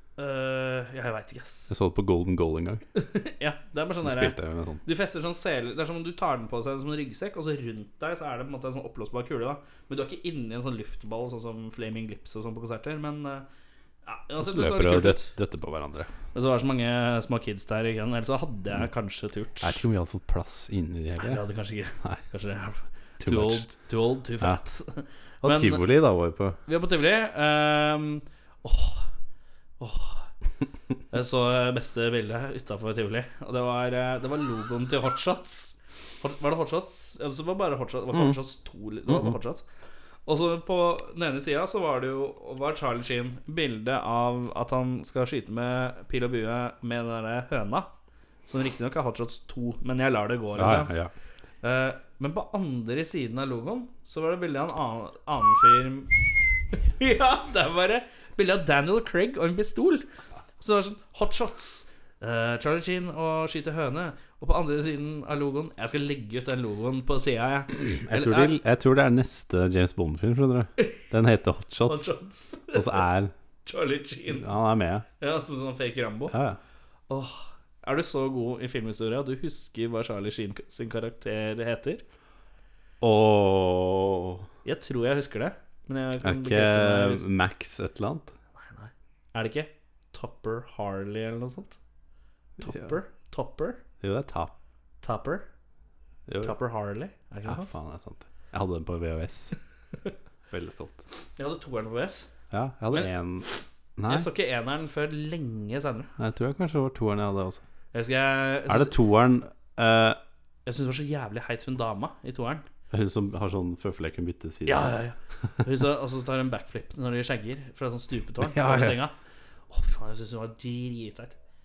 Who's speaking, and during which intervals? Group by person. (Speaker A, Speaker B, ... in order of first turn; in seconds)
Speaker A: 0.2-1.7, 2.9-13.4, 14.0-15.3, 16.3-19.8, 21.2-25.8, 26.6-29.1, 29.8-30.2, 31.1-39.6, 40.2-47.9, 48.5-50.9, 51.6-60.0, 60.6-68.6, 71.8-73.0, 73.6-74.5, 75.2-76.3, 77.1-82.0, 84.6-87.2, 88.6-91.8, 92.6-93.8, 95.0-95.4, 96.4-97.7, 101.4-102.3, 104.1-106.1, 107.9-108.9, 110.7-112.7, 114.6-119.1, 119.7-121.3
Speaker B: 1.7-2.8, 4.0-4.8, 14.4-16.1, 19.6-21.4, 23.2-23.7, 25.4-26.6, 50.5-51.1, 67.9-72.1, 72.7-73.3, 74.3-75.0, 76.3-76.6, 83.0-84.5, 86.2-88.3, 92.6-92.9, 94.0-94.5, 96.3-96.5, 97.4-99.5, 100.5-101.0, 102.5-104.3, 106.2-107.6, 108.7-110.2, 112.9-115.0, 118.4-119.0